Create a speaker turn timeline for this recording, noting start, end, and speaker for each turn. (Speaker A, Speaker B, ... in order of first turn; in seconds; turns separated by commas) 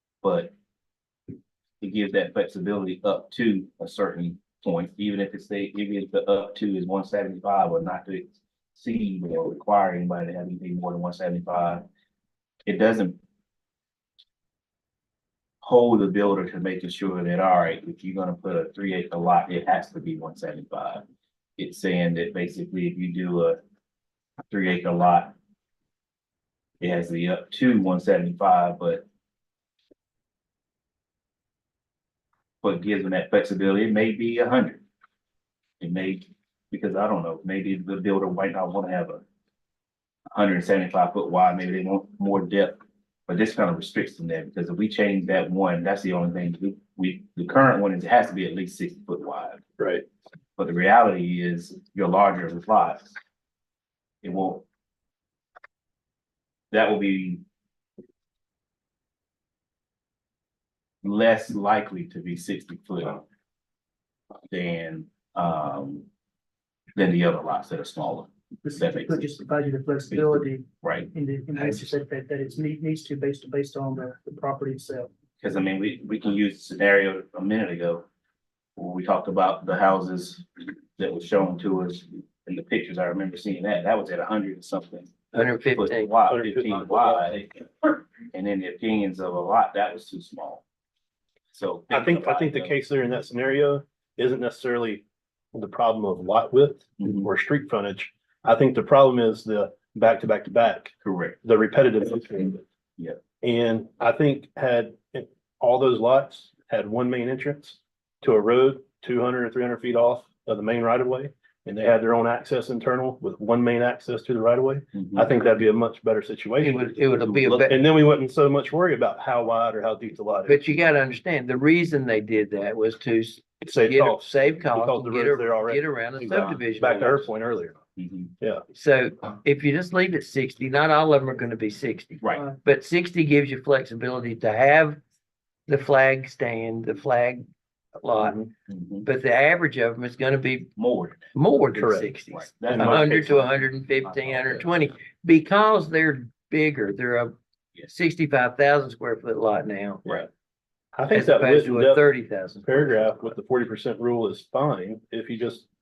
Speaker A: 0.2-0.5, Speaker A: 1.8-11.9, Speaker A: 12.7-13.2, Speaker A: 15.6-21.0, Speaker A: 21.6-23.6, Speaker A: 24.5-25.4, Speaker A: 26.8-29.0, Speaker A: 32.6-34.8, Speaker A: 35.8-39.2, Speaker A: 40.3-49.6, Speaker B: 49.8-50.0, Speaker A: 50.6-53.1, Speaker A: 54.2-54.6, Speaker A: 56.7-57.4, Speaker A: 61.0-63.2, Speaker A: 64.5-66.1, Speaker A: 67.0-69.4, Speaker C: 68.7-75.1, Speaker A: 70.1-71.1, Speaker A: 75.4-78.1, Speaker A: 78.8-80.5, Speaker A: 81.0-90.6, Speaker D: 85.3-86.1, Speaker B: 86.3-87.2, Speaker A: 91.5-92.8, Speaker B: 91.9-102.6, Speaker A: 97.0-97.3, Speaker A: 101.0-101.4, Speaker B: 103.4-116.9, Speaker A: 115.0-115.2, Speaker D: 116.6-117.8, Speaker A: 117.2-117.7, Speaker B: 117.6-120.7, Speaker D: 120.5-127.3, Speaker B: 123.6-127.8, Speaker A: 128.0-128.3, Speaker D: 128.7-135.0, Speaker D: 135.7-138.4, Speaker B: 138.2-138.5, Speaker A: 138.7-139.1, Speaker D: 139.1-140.8, Speaker A: 140.8-141.4, Speaker D: 141.3-147.3, Speaker B: 141.7-142.1, Speaker A: 142.3-143.3, Speaker B: 142.7-143.5, Speaker A: 144.0-144.9, Speaker D: 147.9-150.2, Speaker B: 150.9-152.1, Speaker D: 151.1-153.3, Speaker B: 152.6-155.7